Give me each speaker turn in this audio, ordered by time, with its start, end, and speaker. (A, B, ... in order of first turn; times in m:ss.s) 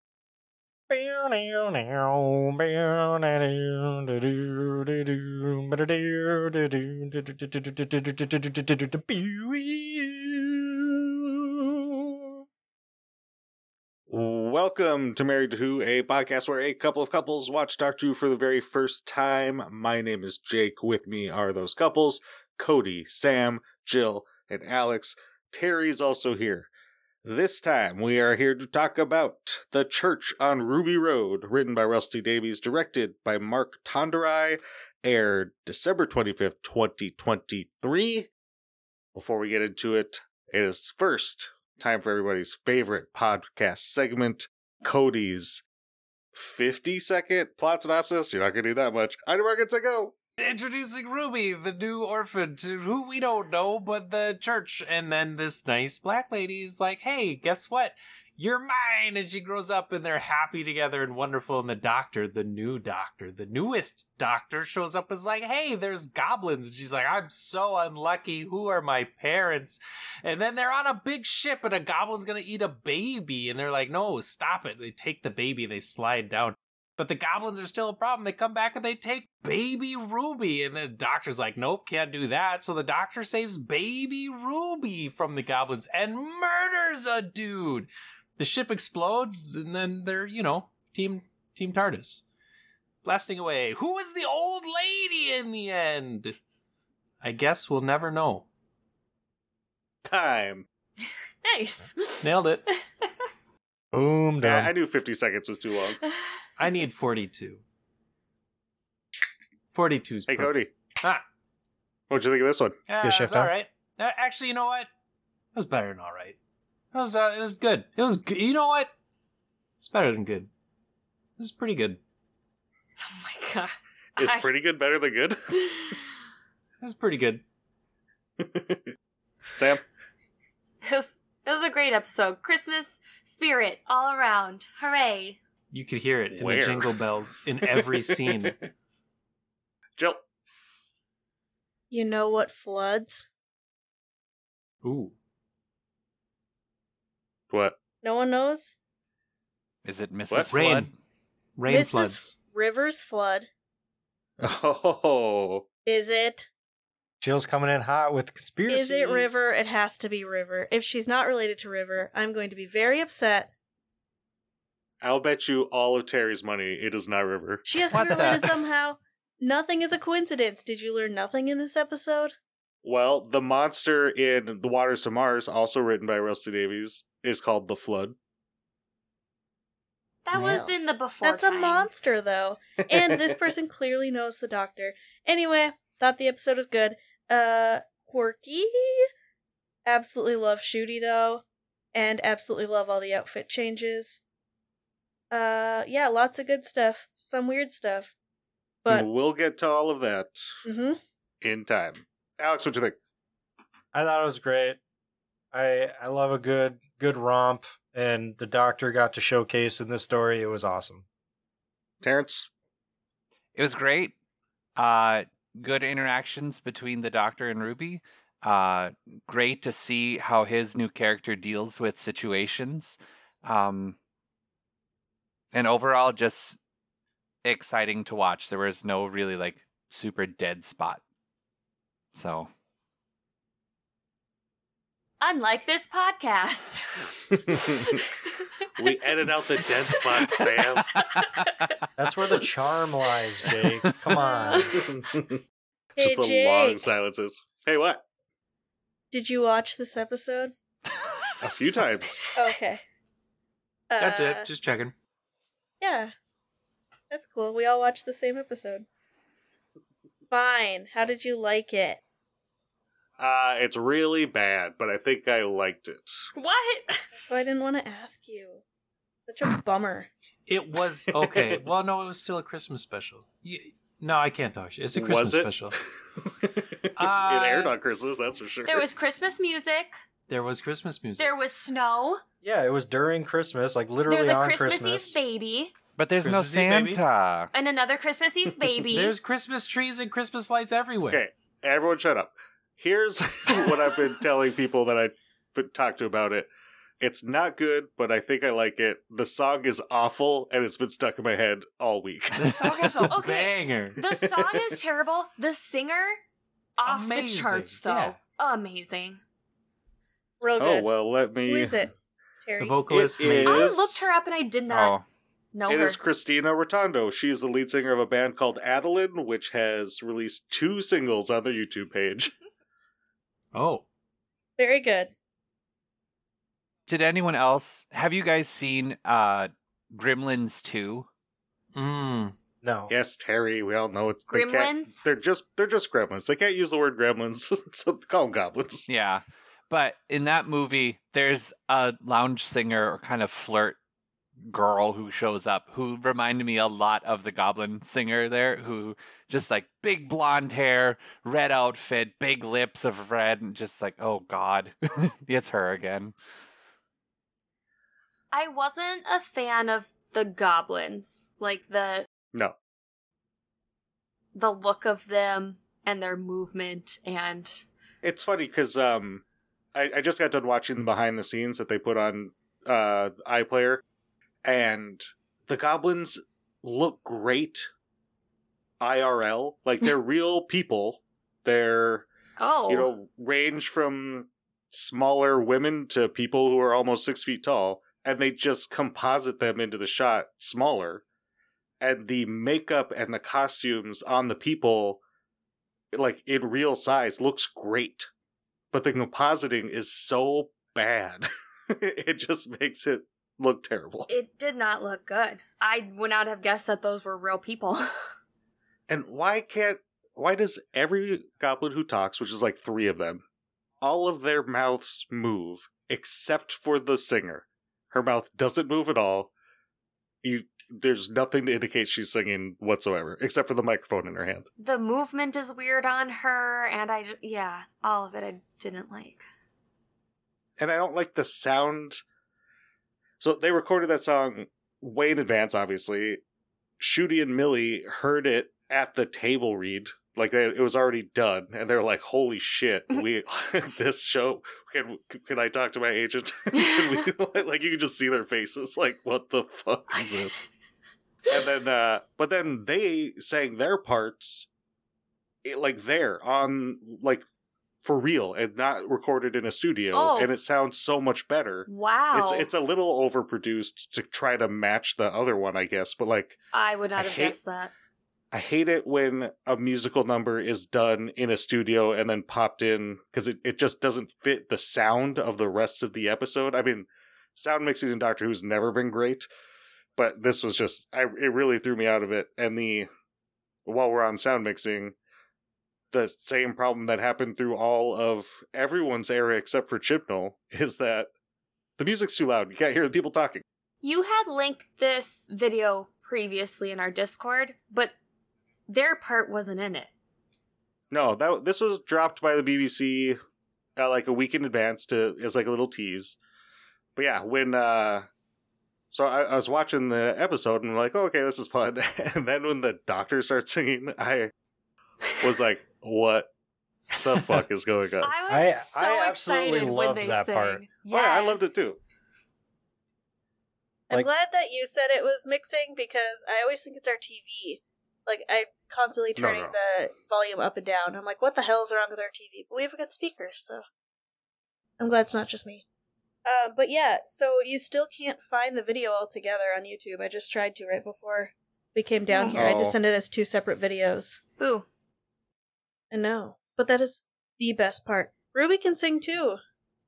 0:00.9-0:12.3 A
0:14.1-0:26.7 B
0:27.2-0:38.3 B
0:39.1-0:45.6 B
0:46.3-0:50.2 B
0:50.4-1:32.2 C
1:33.0-1:36.4 C
1:37.2-1:38.4 C
1:40.0-1:40.6 B
1:41.4-1:42.3 D
1:42.2-1:42.6 C
1:43.9-1:44.7 A
1:44.4-1:46.0 B
1:46.6-1:47.6 C
1:49.7-1:51.2 C
1:50.3-1:50.7 B
1:52.1-1:52.8 B
1:52.9-1:54.9 C
1:53.0-1:53.5 A
1:55.5-1:56.4 C
1:56.9-1:58.9 C
1:59.8-2:00.5 C
2:01.4-2:02.0 C
2:03.0-2:04.5 D
2:04.2-2:06.0 B
2:06.8-2:07.4 C
2:08.4-2:08.9 B
2:09.5-2:09.8 B
2:10.8-2:15.4 D
2:15.7-2:18.6 C
2:16.4-2:17.0 B
2:17.8-2:18.6 B
2:21.9-2:23.2 E
2:24.8-2:25.1 C
2:27.5-2:27.8 B
2:28.0-2:28.7 E
2:29.8-2:30.9 F
2:30.3-2:30.6 B
2:30.5-2:30.9 C
2:31.6-2:32.3 C
2:31.7-2:33.5 E
2:34.4-2:35.6 B
2:35.8-2:36.5 E
2:37.2-2:39.4 A
2:38.7-2:43.5 E
2:45.0-2:47.7 B
2:47.6-2:52.3 E
2:47.9-2:48.6 F
2:52.8-2:58.2 B
3:00.2-3:02.1 D
3:00.3-3:09.1 E
3:02.8-3:03.5 B
3:09.8-3:11.4 E
3:11.9-3:14.2 E
3:15.3-3:18.1 E
3:18.9-3:20.6 B
3:20.6-3:21.0 E
3:21.4-3:23.0 B
3:23.9-3:24.8 A
3:25.5-3:31.0 A
3:32.0-3:32.5 B
3:33.5-3:34.1 F
3:34.8-3:44.0 F
3:45.5-3:46.6 F
3:47.4-3:51.0 F
3:52.1-3:52.5 F
3:55.2-3:58.1 D
3:57.3-3:58.0 B
3:58.8-4:01.0 B
3:59.3-4:01.8 D
4:02.0-4:04.8 A
4:04.2-4:04.8 E
4:04.7-4:05.4 B
4:06.0-4:08.0 B
4:06.0-4:06.9 E
4:09.1-4:10.5 E
4:11.4-4:12.3 B
4:12.3-4:12.8 E
4:13.9-4:14.5 E
4:14.0-4:14.9 C
4:15.8-4:16.1 E
4:17.1-4:18.8 E
4:20.3-4:22.0 E
4:23.2-4:26.2 B
4:26.3-4:27.0 D
4:27.3-4:28.6 E
4:29.3-4:30.1 E
4:30.5-4:35.8 C
4:31.1-4:31.6 B
4:34.9-4:38.8 B
4:37.0-4:37.7 C
4:38.6-4:40.0 D
4:40.3-4:41.3 C
4:41.2-4:42.2 D
4:42.4-4:45.2 A
4:44.0-4:45.7 D
4:46.0-4:47.5 F
4:46.2-4:47.0 C
4:47.5-4:49.1 D
4:48.9-4:51.2 C
4:51.1-4:56.5 B
4:57.0-5:03.1 B
5:02.3-5:04.0 C
5:03.1-5:06.2 D
5:04.0-5:04.8 B
5:06.8-5:09.2 D
5:06.8-5:08.2 C
5:10.4-5:10.9 E
5:10.6-5:11.8 B
5:11.4-5:11.9 E
5:12.4-5:12.9 E
5:12.6-5:13.7 C
5:12.9-5:14.1 B
5:13.4-5:15.0 D
5:14.7-5:15.0 F
5:15.5-5:16.0 D
5:15.7-5:22.3 B
5:23.5-5:23.8 C
5:24.6-5:25.1 E
5:26.9-5:31.1 F
5:31.7-5:32.3 C
5:32.6-5:32.9 A
5:32.9-5:38.9 B
5:34.3-5:35.0 D
5:38.9-5:43.8 F
5:44.4-5:56.1 F
5:58.3-6:02.1 D
6:04.3-6:07.6 D
6:08.0-6:09.2 B
6:09.7-6:13.8 B
6:14.4-6:17.7 B
6:18.8-6:22.0 B
6:22.4-6:22.9 D
6:22.7-6:31.0 B
6:31.8-6:35.0 B
6:35.9-6:38.1 B
6:38.7-6:44.1 B
6:44.1-6:47.9 D
6:48.9-6:53.2 B
6:53.8-6:59.3 B
7:00.2-7:04.4 B
7:04.6-7:09.2 D
7:10.6-7:12.0 B
7:13.2-7:16.2 B
7:16.8-7:30.4 B
7:29.9-7:30.2 D
7:31.3-7:34.5 B
7:35.4-7:37.2 B
7:37.8-7:46.4 B
7:39.9-7:40.3 D
7:41.7-7:42.5 D
7:46.5-7:47.7 D
7:47.0-7:47.4 B
7:48.3-7:59.3 B
8:00.0-8:02.9 B
8:03.6-8:04.9 B
8:05.9-8:11.1 B
8:11.8-8:13.4 B
8:13.8-8:17.9 D
8:18.7-8:19.9 D
8:20.9-8:23.2 B
8:23.8-8:26.2 B
8:27.0-8:28.1 B
8:28.9-8:34.3 B
8:35.2-8:36.3 B
8:37.0-8:38.1 B
8:38.0-8:41.6 D
8:38.3-8:40.6 A
8:40.9-8:41.8 B
8:43.9-8:53.6 E
8:49.2-8:49.5 B
8:54.8-8:55.6 E
8:56.2-9:04.2 E
9:02.1-9:02.4 D
9:02.3-9:02.7 B
9:04.4-9:04.6 D
9:05.9-9:09.4 E